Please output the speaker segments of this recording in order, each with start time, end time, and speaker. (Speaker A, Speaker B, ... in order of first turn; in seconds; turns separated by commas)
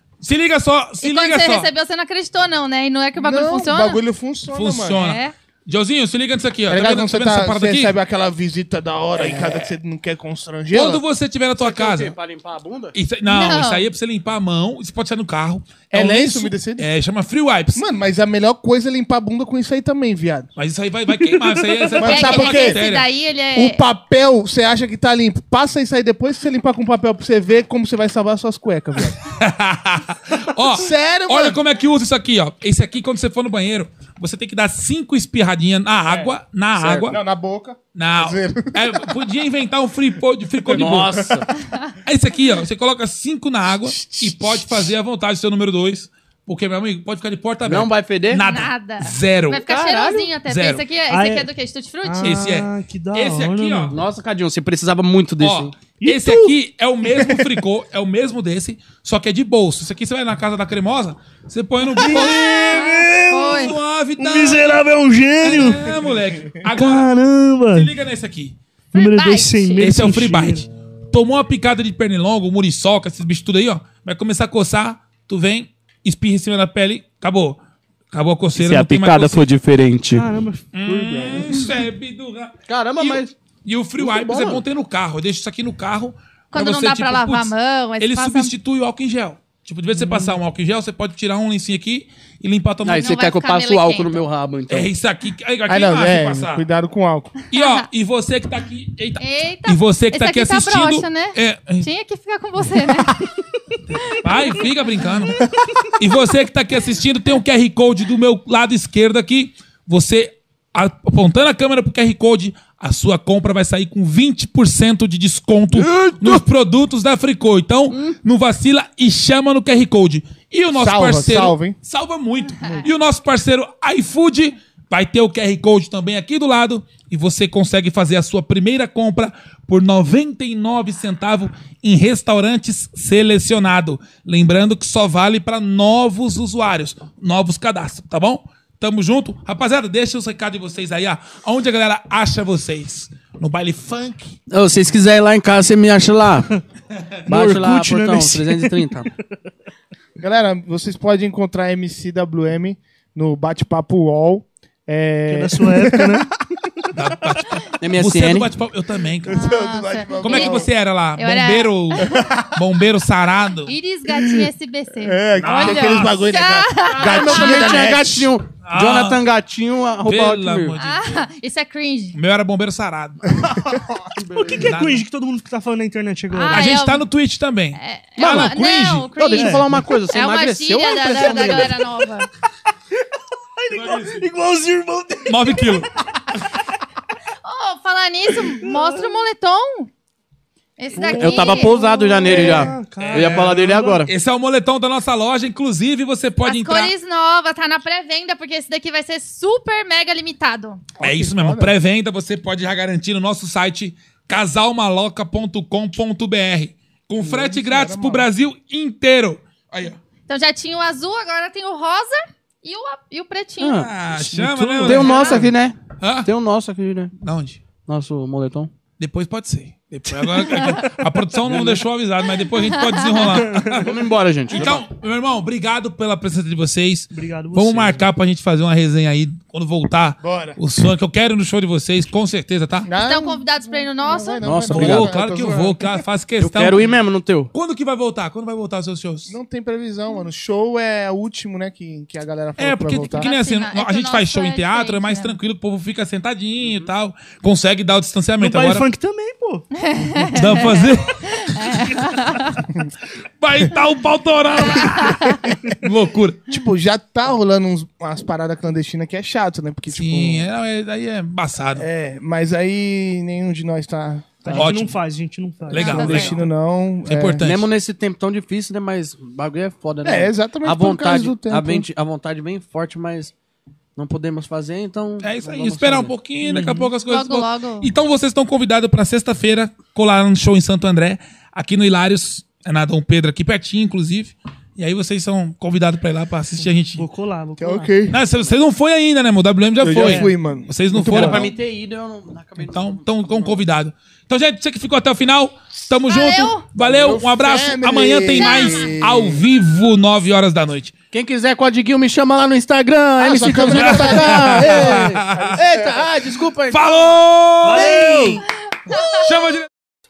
Speaker A: 0.2-1.7, Speaker B: 1.0-4.0, Speaker C: 3.1-5.1, Speaker A: 4.5-8.0, Speaker B: 4.9-5.3, Speaker C: 6.7-11.0, Speaker A: 10.7-12.1, Speaker D: 11.6-12.9, Speaker A: 12.9-17.8, Speaker B: 13.2-13.9, Speaker C: 15.9-16.9, Speaker C: 17.7-20.5, Speaker A: 20.6-23.1, Speaker E: 21.2-22.0, Speaker C: 22.0-22.8, Speaker B: 22.0-23.8, Speaker C: 23.5-29.2, Speaker A: 29.2-37.2, Speaker C: 30.7-31.6, Speaker C: 36.1-38.9, Speaker A: 37.9-41.3, Speaker D: 40.7-41.5, Speaker C: 40.7-41.4, Speaker B: 41.6-41.9, Speaker A: 42.0-49.6, Speaker C: 43.8-44.9, Speaker D: 47.6-48.4, Speaker B: 48.4-52.5, Speaker D: 49.7-50.3, Speaker A: 50.4-50.8, Speaker E: 51.1-51.5, Speaker E: 52.0-53.9, Speaker A: 52.2-54.0, Speaker D: 53.9-55.7, Speaker A: 55.4-64.8, Speaker E: 56.0-56.5, Speaker C: 57.1-57.5, Speaker E: 61.8-66.0, Speaker B: 62.1-63.8, Speaker A: 65.4-67.1, Speaker E: 66.7-67.9, Speaker A: 67.7-68.6, Speaker B: 68.9-69.8, Speaker E: 68.9-70.7, Speaker A: 69.8-77.6, Speaker A: 78.1-79.5, Speaker D: 78.5-80.2, Speaker E: 80.1-81.7, Speaker A: 80.7-93.2, Speaker D: 82.7-83.3, Speaker D: 84.0-84.6, Speaker B: 86.5-88.5, Speaker E: 89.9-90.4, Speaker D: 92.8-94.9, Speaker B: 92.9-94.2, Speaker A: 94.7-96.7, Speaker C: 95.7-97.3, Speaker A: 97.5-101.9, Speaker B: 97.5-97.9, Speaker B: 99.2-103.2, Speaker A: 103.9-105.4, Speaker B: 104.0-104.7, Speaker A: 106.0-144.3, Speaker D: 115.7-116.4, Speaker D: 117.9-118.2, Speaker C: 120.7-121.8, Speaker B: 122.4-122.9, Speaker D: 144.5-146.5, Speaker E: 147.3-148.8, Speaker D: 147.3-149.1, Speaker C: 150.2-156.3, Speaker E: 155.3-156.3, Speaker A: 156.9-159.4, Speaker D: 157.8-158.5, Speaker C: 159.3-160.7, Speaker B: 159.3-162.3, Speaker A: 160.2-163.7, Speaker C: 162.0-162.5, Speaker B: 163.6-167.7, Speaker C: 164.1-164.5, Speaker C: 165.0-168.3, Speaker A: 165.4-166.2, Speaker D: 166.9-170.8, Speaker A: 168.6-169.2, Speaker A: 170.0-171.2, Speaker B: 170.8-172.2, Speaker A: 172.1-173.4, Speaker C: 173.5-174.0, Speaker D: 174.2-174.7, Speaker E: 174.3-176.7, Speaker A: 174.5-175.0, Speaker B: 176.3-177.0, Speaker A: 176.5-179.1, Speaker B: 177.7-182.3, Speaker D: 178.2-178.5, Speaker D: 179.0-181.9, Speaker E: 179.3-179.7, Speaker E: 183.6-185.8, Speaker A: 183.7-184.2, Speaker A: 185.2-185.9, Speaker B: 187.4-189.9, Speaker E: 188.6-189.2, Speaker B: 190.8-192.5, Speaker E: 190.9-194.1, Speaker D: 191.1-194.1, Speaker A: 193.0-196.9, Speaker B: 196.4-200.8, Speaker C: 201.0-201.7, Speaker A: 201.0-210.0, Speaker C: 207.2-208.3, Speaker B: 210.3-213.9, Speaker D: 213.6-217.1, Speaker A: 213.8-216.3, Speaker E: 214.5-215.0, Speaker B: 214.9-215.4, Speaker A: 217.2-217.6, Speaker D: 217.8-218.7, Speaker A: 219.0-224.0, Speaker B: 220.4-220.9, Speaker D: 221.5-221.8, Speaker B: 222.6-223.4, Speaker E: 223.3-223.9, Speaker D: 223.7-224.8, Speaker A: 224.5-232.9, Speaker E: 227.1-228.1, Speaker C: 230.2-230.6, Speaker C: 232.9-236.0, Speaker B: 232.9-234.5, Speaker D: 234.4-235.1, Speaker A: 234.7-236.9, Speaker D: 236.4-237.5, Speaker A: 237.5-239.3, Speaker C: 239.3-243.3, Speaker A: 242.6-248.9, Speaker B: 243.0-245.3, Speaker D: 246.6-246.9, Speaker E: 248.4-250.6, Speaker B: 249.7-252.6, Speaker A: 250.3-251.4, Speaker E: 251.7-252.1, Speaker A: 253.4-256.4, Speaker B: 254.6-255.4, Speaker C: 256.5-260.5, Speaker A: 259.9-261.9, Speaker C: 261.7-264.7, Speaker E: 264.4-266.2, Speaker A: 264.5-265.0, Speaker A: 265.7-266.4, Speaker B: 265.7-266.4, Speaker C: 265.8-267.4, Speaker A: 267.0-267.7, Speaker D: 267.4-273.3, Speaker C: 270.0-271.9, Speaker D: 273.9-276.8, Speaker A: 275.2-287.1, Speaker B: 277.0-277.9, Speaker E: 287.0-287.9, Speaker C: 287.6-288.2, Speaker A: 288.1-291.5, Speaker C: 289.8-291.5, Speaker E: 290.0-290.3, Speaker D: 291.1-293.6, Speaker A: 292.6-300.9, Speaker B: 296.1-296.6, Speaker C: 296.8-299.4, Speaker B: 298.4-298.9, Speaker D: 301.1-307.2, Speaker C: 303.2-306.1, Speaker A: 303.7-305.6, Speaker A: 306.7-309.7, Speaker E: 307.6-308.4, Speaker D: 307.7-308.3, Speaker B: 308.7-309.5